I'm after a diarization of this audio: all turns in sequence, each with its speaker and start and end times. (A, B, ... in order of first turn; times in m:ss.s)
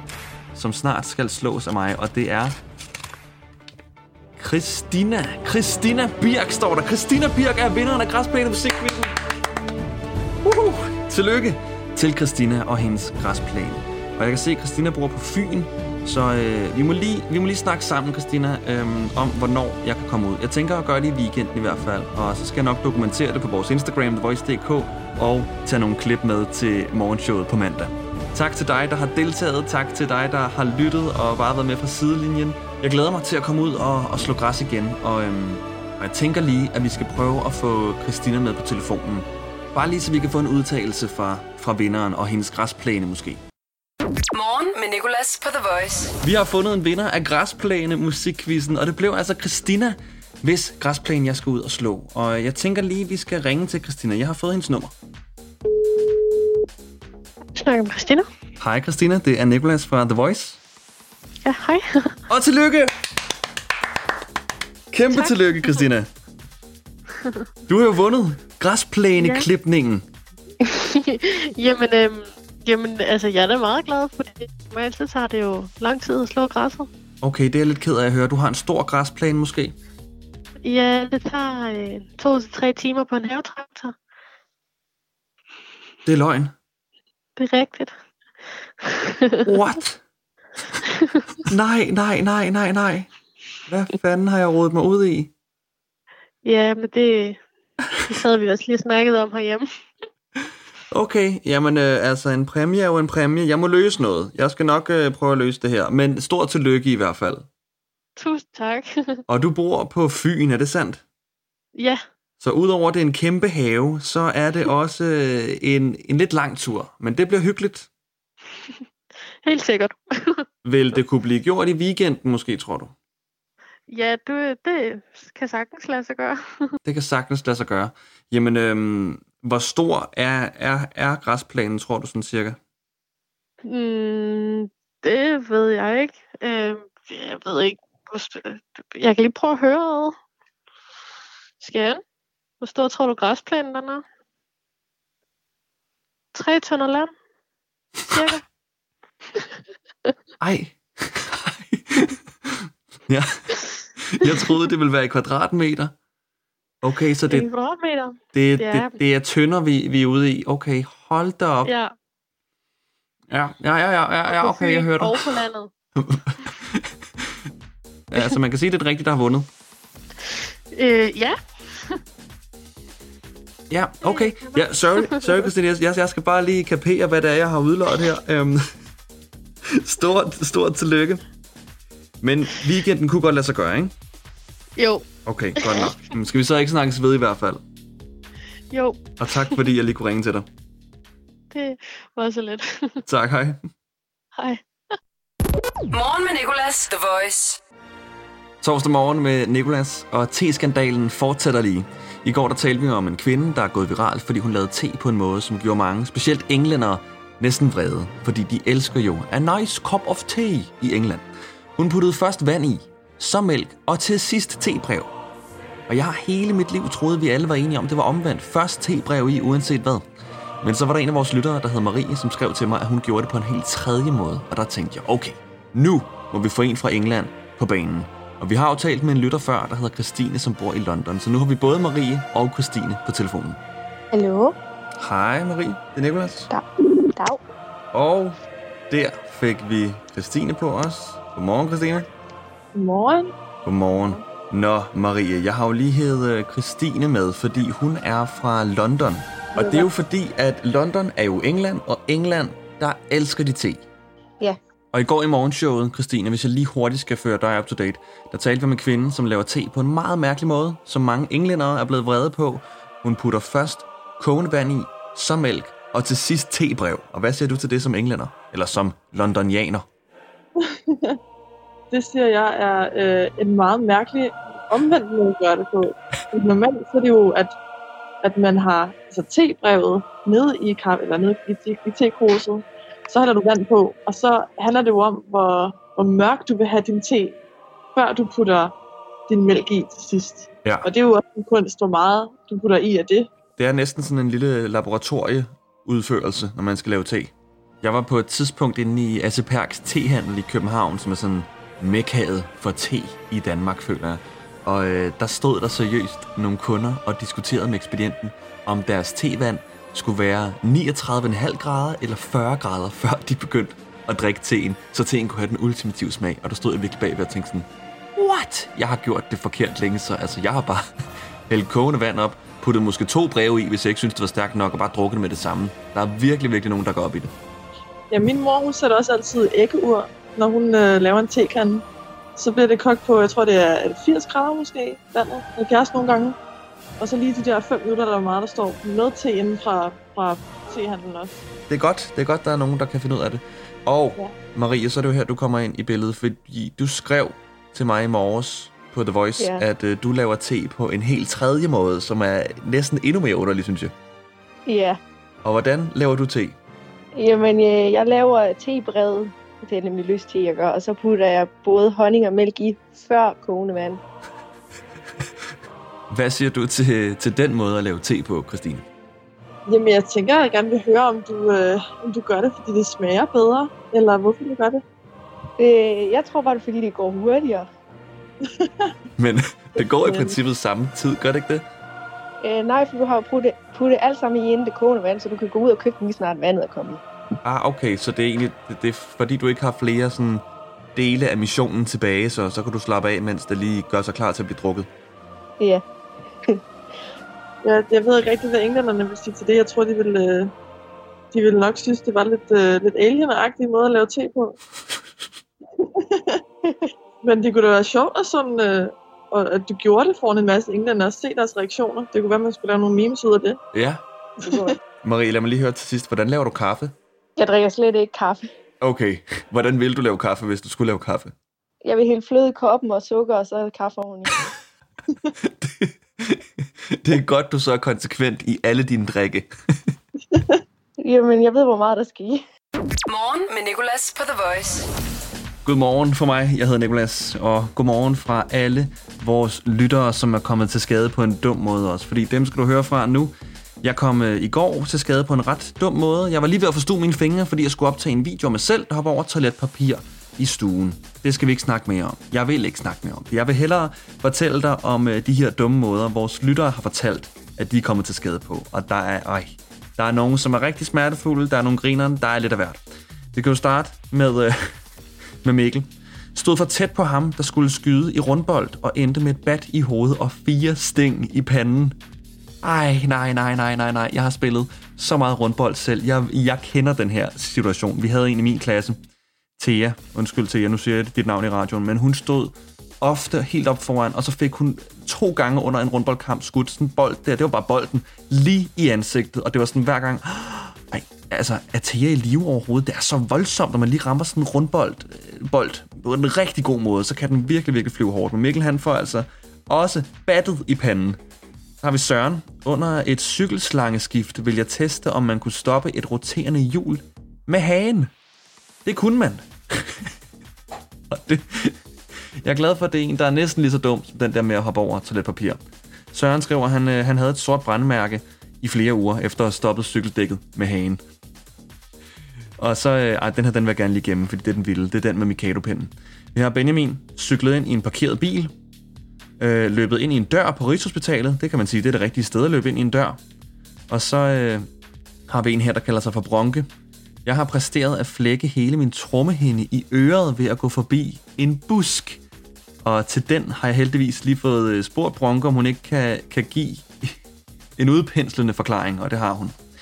0:00.5-0:02.6 A
0:04.4-0:09.2 A
0:10.4-0:43.4 A
0:44.3-0:46.2 B
0:46.2-0:54.9 A
0:57.6-0:58.3 C
0:58.6-1:00.6 A
1:01.4-1:02.2 C
1:02.3-1:02.9 A
1:04.9-1:06.1 A
1:05.1-1:05.7 C
1:07.1-1:07.5 C
1:07.7-1:10.0 A
1:09.2-1:09.5 C
1:10.6-1:16.9 C
1:17.2-1:19.8 A
1:20.6-1:24.0 C
1:26.1-1:26.6 A
1:27.4-1:27.9 C
1:28.8-1:29.5 C
1:29.4-1:30.0 A
1:30.8-1:31.4 C
1:31.5-1:33.1 A
1:33.7-1:35.3 A
1:36.4-1:37.4 C
1:38.0-1:39.6 C
1:40.9-1:47.5 A
1:48.2-1:49.2 C
1:49.3-1:51.0 A
1:51.8-1:52.0 C
1:52.4-1:57.9 A
1:59.4-2:00.4 C
2:00.6-2:02.9 A
2:03.9-2:06.7 C
2:06.8-2:12.6 A
2:13.6-2:20.2 C
2:21.6-2:22.0 C
2:22.6-2:24.0 C
2:26.3-2:27.1 C
2:28.1-2:28.4 C
2:29.3-2:29.6 C
2:30.4-2:36.0 A
2:36.8-2:37.5 A
2:37.3-2:39.0 C
2:38.3-2:41.7 A
2:41.6-2:41.9 C
2:43.3-2:45.4 A
2:44.3-2:45.7 C
2:46.0-2:47.4 A
2:48.1-2:49.5 A
2:50.2-2:52.0 C
2:53.7-2:58.7 A
2:54.0-2:55.5 C
2:59.7-3:01.2 A
3:02.2-3:03.9 A
3:04.8-3:05.0 C
3:05.3-3:07.6 A
3:05.6-3:05.9 C
3:08.7-3:09.6 C
3:09.2-3:10.5 A
3:11.5-3:13.0 C
3:13.1-3:13.6 A
3:14.4-3:14.6 C
3:15.9-3:17.6 B
3:18.6-3:35.1 A
3:35.9-3:40.1 A
3:40.6-3:53.6 A
3:54.1-3:54.6 D
3:55.0-3:56.5 A
3:56.5-3:57.4 D
3:57.9-3:58.4 A
3:58.9-4:02.1 A
4:02.7-4:03.3 E
4:03.6-4:13.8 A
4:14.9-4:29.9 A
4:30.6-4:31.2 E
4:31.9-4:37.6 E
4:38.2-4:47.4 E
4:48.0-4:48.7 E
4:49.3-4:53.3 E
4:53.6-5:20.9 A
5:21.5-5:27.3 A
5:28.1-5:31.8 E
5:32.4-5:36.4 E
5:37.0-5:41.3 E
5:41.7-5:53.9 A
5:49.4-5:49.6 D
5:54.7-5:55.0 D
5:55.4-5:56.6 A
5:57.2-6:04.0 D
6:06.1-6:08.9 A
6:09.7-6:14.8 E
6:15.6-6:17.7 D
6:18.4-6:19.0 E
6:19.2-6:21.7 A
6:19.8-6:20.4 E
6:22.4-6:27.0 D
6:27.4-6:34.9 A
6:37.6-6:40.5 E
6:41.3-6:44.6 E
6:45.8-6:46.4 E
6:47.2-6:53.6 E
6:53.7-6:54.0 A
6:54.4-6:54.8 E
6:55.0-6:57.0 A
6:57.4-6:58.5 D
6:58.8-7:01.4 A
7:01.8-7:04.5 D
7:05.4-7:09.9 A
7:10.3-7:10.6 E
7:11.0-7:12.4 D
7:13.1-7:14.9 B
7:15.6-7:42.8 A
7:43.3-7:44.8 A
7:45.4-7:52.0 A
7:52.6-7:59.0 A
7:59.6-8:21.2 A
8:21.8-8:28.1 A
8:28.8-8:30.1 A
8:31.1-8:31.8 A
8:32.4-8:35.6 A
8:36.1-8:41.0 A
8:42.6-8:48.5 A
8:49.4-8:53.2 A
8:53.9-8:54.7 A
8:55.3-8:56.7 A
8:57.2-9:02.2 A
9:02.8-9:07.2 A
9:07.8-9:09.6 A